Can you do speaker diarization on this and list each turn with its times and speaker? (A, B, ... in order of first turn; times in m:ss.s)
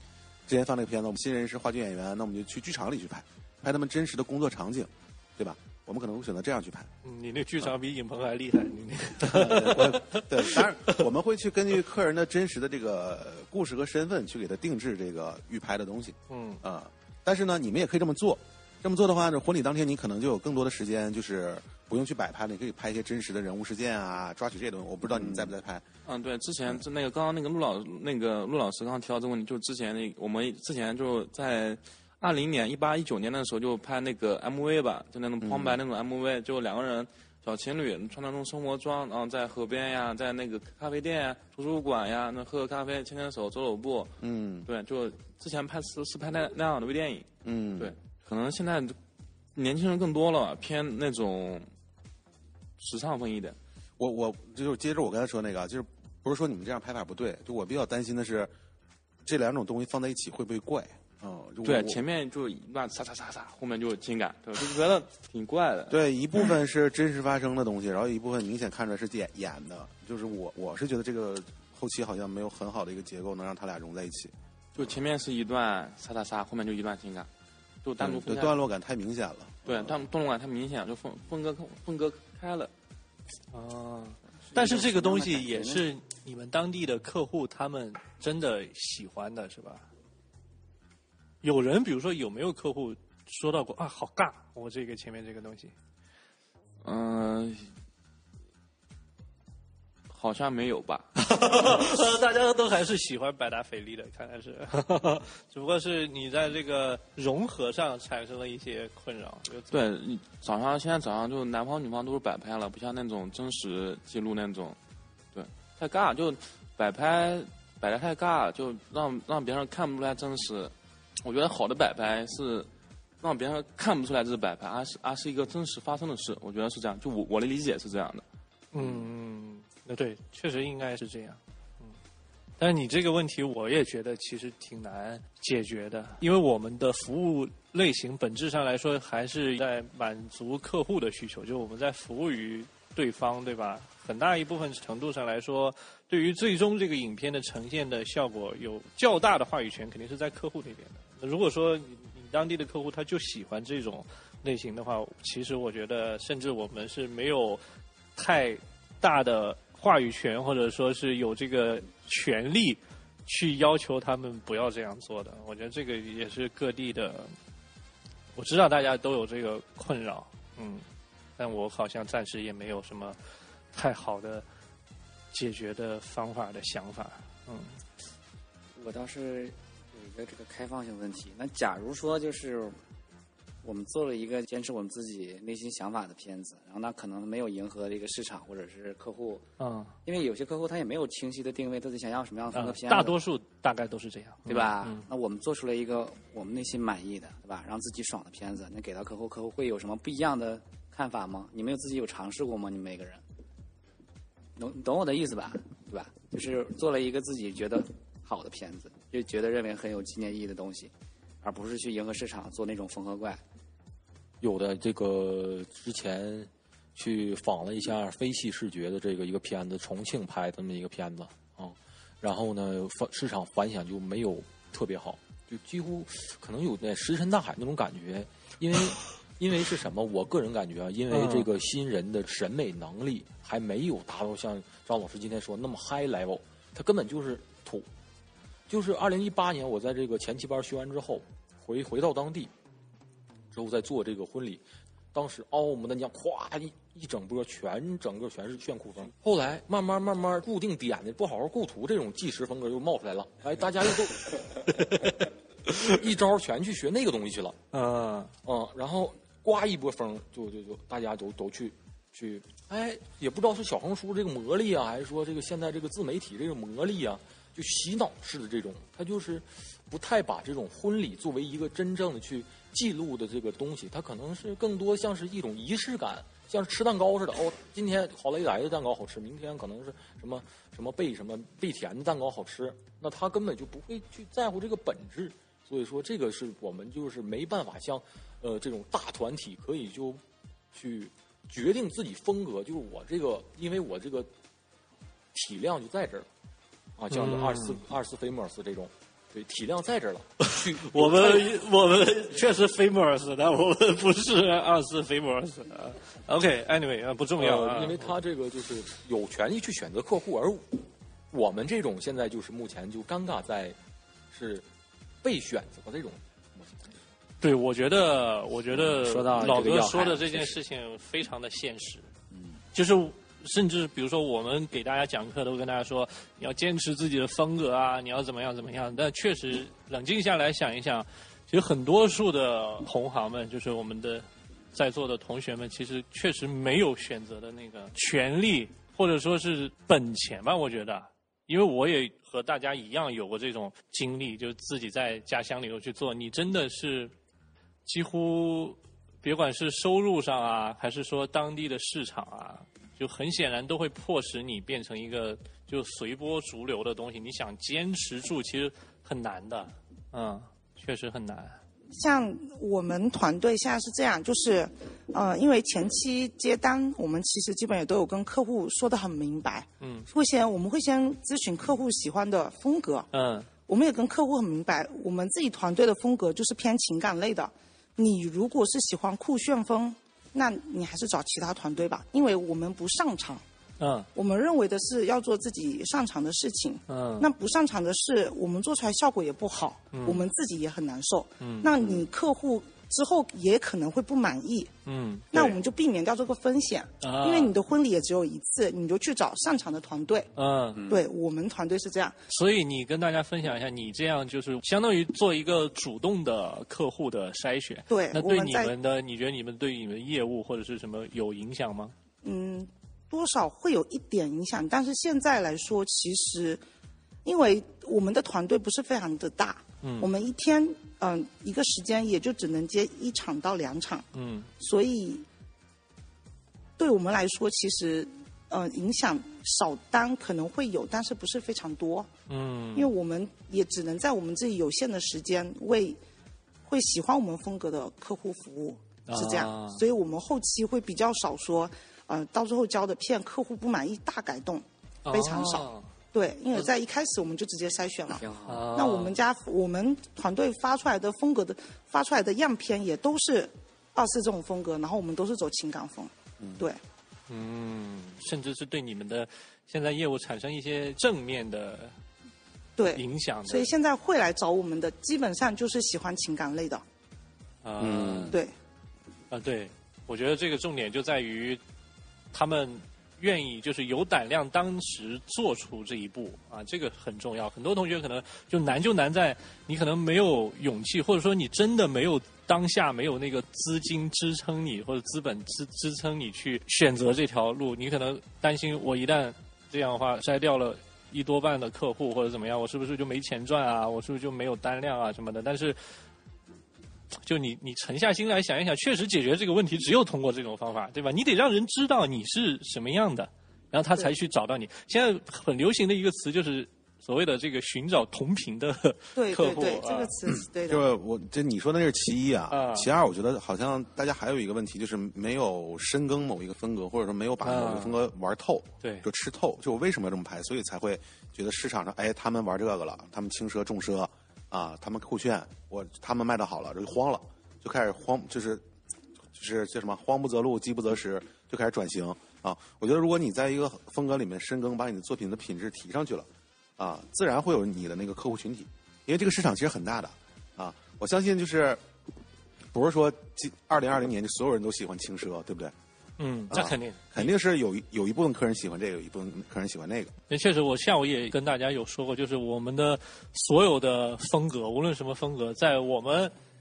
0:00.5-0:06.9 A
0:07.0-0:11.0 B
0:09.2-0:25.8 A
0:16.3-0:16.6 B
0:26.0-0:49.0 C
0:35.4-0:35.8 A
0:44.2-0:44.6 A
0:47.4-0:47.9 A
0:49.6-0:51.7 C
0:52.8-0:53.6 C
0:54.0-0:58.5 A
0:59.2-1:02.0 A
1:01.6-1:06.0 C
1:05.9-1:14.9 A
1:14.8-1:17.3 C
1:17.8-1:18.6 C
1:18.0-1:20.0 A
1:19.6-1:22.7 C
1:23.5-1:29.8 B
1:24.5-1:25.8 D
1:31.4-1:35.7 B
1:36.8-1:37.7 C
1:40.1-1:41.1 C
1:41.2-1:49.8 B
1:49.7-1:54.8 C
1:55.3-2:02.7 C
2:03.2-2:08.2 C
2:08.7-2:11.9 B
2:12.6-2:37.6 B
2:38.2-2:47.3 B
2:48.4-2:50.8 B
2:51.4-2:53.2 B
2:53.7-2:54.4 B
2:55.3-2:57.8 B
2:58.8-3:02.8 D
3:03.6-3:09.4 D
3:09.6-3:09.9 B
3:10.0-3:13.2 D
3:12.5-3:15.0 B
3:14.4-3:23.2 D
3:24.6-3:33.4 D
3:34.4-3:57.9 E
3:51.1-3:51.5 B
3:58.7-4:02.5 E
4:03.5-4:04.6 E
4:05.1-4:17.6 E
4:17.7-4:18.3 B
4:18.4-4:50.2 E
4:50.7-4:54.3 E
4:55.3-4:56.3 E
4:57.0-5:01.5 E
4:57.1-4:57.8 B
5:00.4-5:08.1 B
5:07.4-5:13.8 E
5:14.3-5:14.7 E
5:15.2-5:16.9 E
5:17.4-5:22.1 B
5:18.9-5:20.5 D
5:22.7-5:47.1 B
5:47.8-6:01.6 B
6:01.9-6:13.1 F
6:09.8-6:10.1 B
6:13.1-6:13.5 B
6:13.7-6:23.4 F
6:23.8-6:24.1 B
6:24.1-6:34.7 F
6:26.9-6:27.3 B
6:29.9-6:30.2 B
6:31.4-6:31.7 B
6:34.8-6:35.6 B
6:35.3-6:40.3 F
6:37.0-6:37.6 B
6:40.4-6:40.8 B
6:40.7-6:41.0 D
6:40.9-6:42.2 F
6:42.3-6:51.9 B
6:47.9-6:48.7 F
6:52.2-6:56.6 F
6:57.2-7:04.0 F
6:59.8-7:00.1 B
7:04.1-7:04.5 B
7:04.6-7:05.2 F
7:06.8-7:12.1 F
7:12.3-7:12.9 B
7:12.7-7:16.0 F
7:16.6-7:36.8 F
7:19.1-7:19.8 B
7:25.0-7:25.9 B
7:28.1-7:28.7 D
7:28.5-7:29.2 B
7:37.3-7:41.9 B
7:42.8-7:46.8 F
7:42.9-7:43.7 B
7:47.6-7:48.4 B
7:47.8-7:48.3 A
7:49.3-7:51.6 B
7:52.3-8:15.8 B
8:17.2-8:30.1 B
8:29.1-8:30.8 F
8:30.7-8:48.6 A
8:32.5-8:32.9 B
8:37.4-8:38.0 B
8:38.8-8:39.1 B
8:49.3-9:01.8 A
9:02.7-9:05.7 A
9:06.2-9:07.3 B
9:06.5-9:10.1 A
9:10.3-9:16.3 B